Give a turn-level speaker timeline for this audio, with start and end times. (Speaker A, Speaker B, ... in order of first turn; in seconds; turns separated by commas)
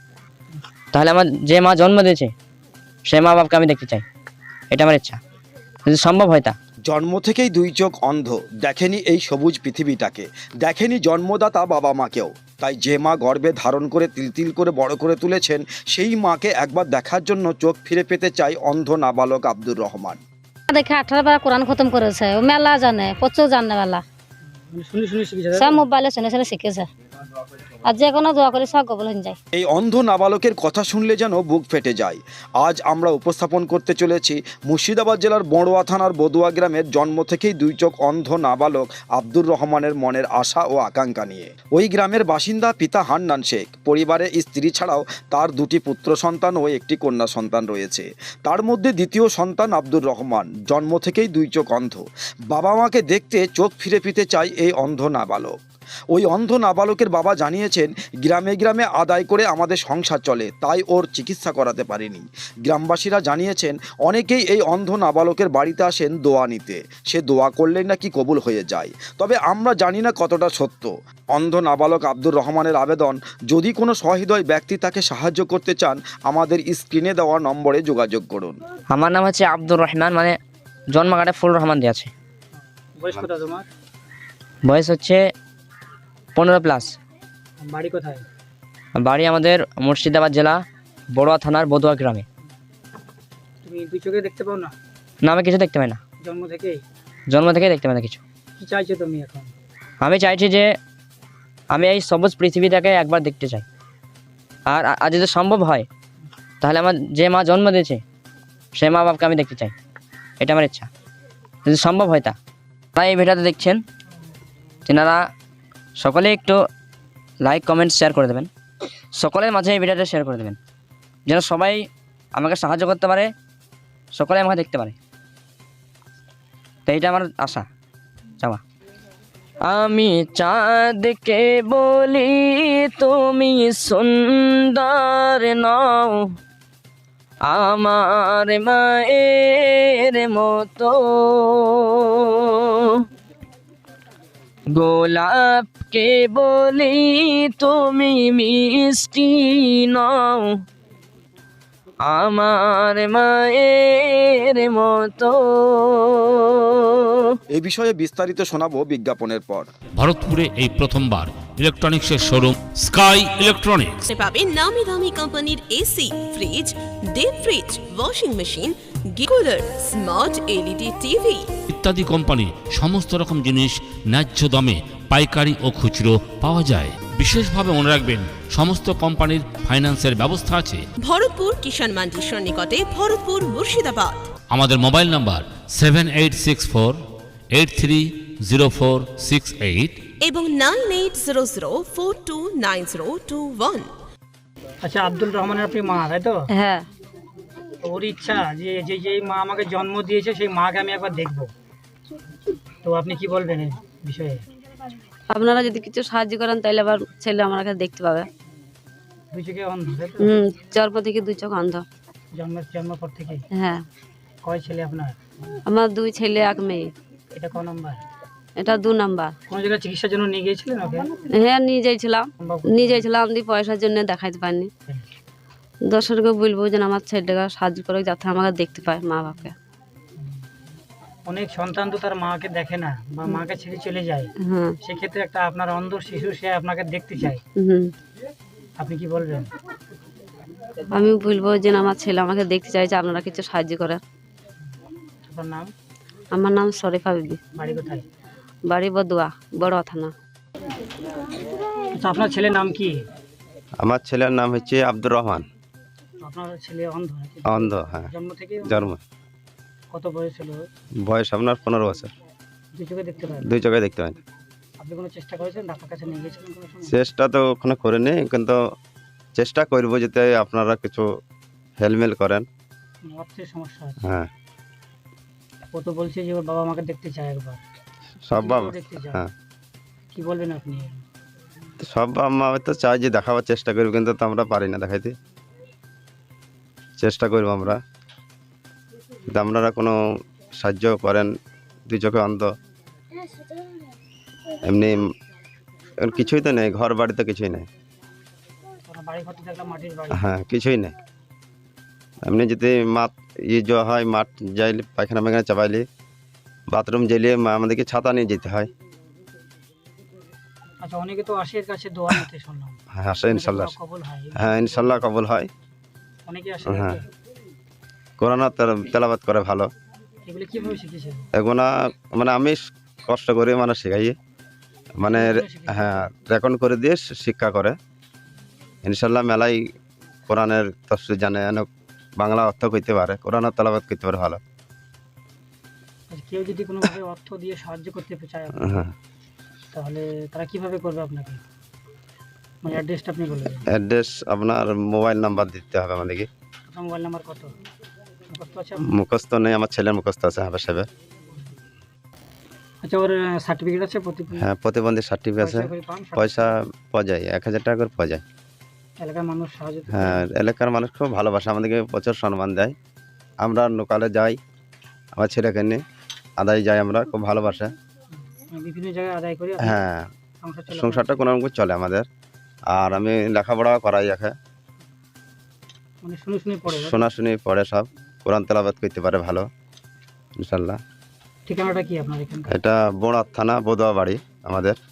Speaker A: 0.9-2.3, Speaker A: 3.1-4.0, Speaker A: 4.7-5.2, Speaker A: 5.9-6.6, Speaker B: 6.9-20.2, Speaker C: 20.7-24.0, Speaker D: 24.7-25.8, Speaker C: 25.5-26.9, Speaker C: 27.9-29.4, Speaker B: 29.6-55.6, Speaker B: 56.1-78.6, Speaker A: 78.9-80.4, Speaker A: 80.9-82.1, Speaker D: 83.0-83.7, Speaker A: 84.7-85.2, Speaker A: 86.3-86.9, Speaker D: 87.6-88.2, Speaker A: 89.0-90.6, Speaker A: 91.1-92.2, Speaker D: 93.6-94.7, Speaker A: 95.2-96.0, Speaker D: 96.2-96.8, Speaker A: 97.3-98.2, Speaker D: 98.6-99.5, Speaker A: 100.0-100.7, Speaker A: 101.7-103.7, Speaker A: 104.7-105.9, Speaker A: 106.6-108.0, Speaker A: 108.8-109.7, Speaker A: 110.4-110.9, Speaker A: 111.7-112.4, Speaker A: 113.0-113.8, Speaker A: 114.9-115.2, Speaker A: 116.0-116.6, Speaker A: 117.4-118.5, Speaker A: 119.2-120.6, Speaker A: 121.3-121.8, Speaker A: 122.4-123.3, Speaker A: 124.2-125.0, Speaker A: 126.9-127.7, Speaker A: 129.7-136.2, Speaker A: 137.5-141.9, Speaker A: 144.8-150.5, Speaker A: 152.1-156.3, Speaker B: 157.5-159.7, Speaker E: 160.0-164.1, Speaker F: 164.1-171.5, Speaker E: 171.7-180.8, Speaker F: 181.0-184.2, Speaker E: 184.5-187.0, Speaker E: 187.5-190.0, Speaker F: 190.2-193.9, Speaker D: 194.8-196.4, Speaker G: 196.6-196.9, Speaker D: 197.8-201.5, Speaker D: 202.8-204.4, Speaker G: 205.3-208.3, Speaker D: 209.3-210.3, Speaker G: 210.2-211.8, Speaker D: 212.3-213.4, Speaker G: 213.6-213.8, Speaker D: 214.4-215.2, Speaker G: 215.7-216.9, Speaker D: 217.3-218.0, Speaker G: 218.6-219.3, Speaker D: 219.5-221.1, Speaker G: 221.4-224.7, Speaker D: 222.4-223.1, Speaker G: 225.9-229.5, Speaker D: 231.3-234.3, Speaker G: 234.4-234.8, Speaker D: 234.8-237.4, Speaker G: 237.6-237.9, Speaker D: 238.8-239.5, Speaker G: 240.9-244.0, Speaker D: 245.3-245.7, Speaker G: 246.3-247.4, Speaker D: 247.6-248.1, Speaker G: 248.7-250.1, Speaker D: 252.0-253.0, Speaker H: 253.8-255.4, Speaker D: 256.2-258.9, Speaker H: 257.5-258.1, Speaker H: 258.7-259.0, Speaker D: 259.9-260.6, Speaker H: 261.1-262.1, Speaker D: 262.8-263.4, Speaker H: 263.4-264.1, Speaker D: 264.8-266.9, Speaker H: 266.9-268.6, Speaker H: 269.4-271.1, Speaker H: 271.8-272.5, Speaker D: 273.1-274.0, Speaker H: 274.0-274.3, Speaker D: 275.7-277.6, Speaker H: 278.3-279.3, Speaker D: 278.4-279.2, Speaker D: 280.1-281.0, Speaker H: 281.8-285.1, Speaker H: 287.0-287.8, Speaker H: 289.3-290.0, Speaker H: 290.6-291.3, Speaker H: 291.9-292.5, Speaker H: 294.6-295.0, Speaker H: 296.0-297.7, Speaker D: 298.9-300.1, Speaker H: 300.2-300.9, Speaker H: 302.3-305.9, Speaker H: 306.7-308.7, Speaker D: 310.8-312.8, Speaker H: 313.0-313.7, Speaker D: 313.3-315.1, Speaker H: 314.4-315.5, Speaker D: 316.3-317.0, Speaker H: 316.7-317.0, Speaker H: 318.2-319.7, Speaker D: 320.2-321.2, Speaker H: 321.4-324.2, Speaker H: 325.0-327.8, Speaker D: 325.1-326.1, Speaker H: 328.9-329.6, Speaker H: 330.3-331.7, Speaker H: 332.2-334.4, Speaker D: 336.1-338.8, Speaker H: 338.6-338.9, Speaker D: 339.7-341.4, Speaker D: 342.6-343.6, Speaker H: 343.7-346.3, Speaker D: 346.7-347.5, Speaker D: 348.3-348.8, Speaker H: 348.9-350.9, Speaker D: 352.8-354.4, Speaker H: 354.4-358.2, Speaker D: 355.4-356.4, Speaker D: 359.0-360.2, Speaker H: 359.9-362.7, Speaker H: 363.4-364.4, Speaker H: 365.2-365.8, Speaker H: 366.4-367.7, Speaker D: 368.5-369.8, Speaker H: 369.6-370.1, Speaker D: 370.4-371.2, Speaker H: 370.7-372.1, Speaker H: 372.7-374.3, Speaker D: 376.0-376.9, Speaker H: 376.7-379.5, Speaker H: 380.4-380.8, Speaker D: 381.5-382.5, Speaker H: 382.5-384.8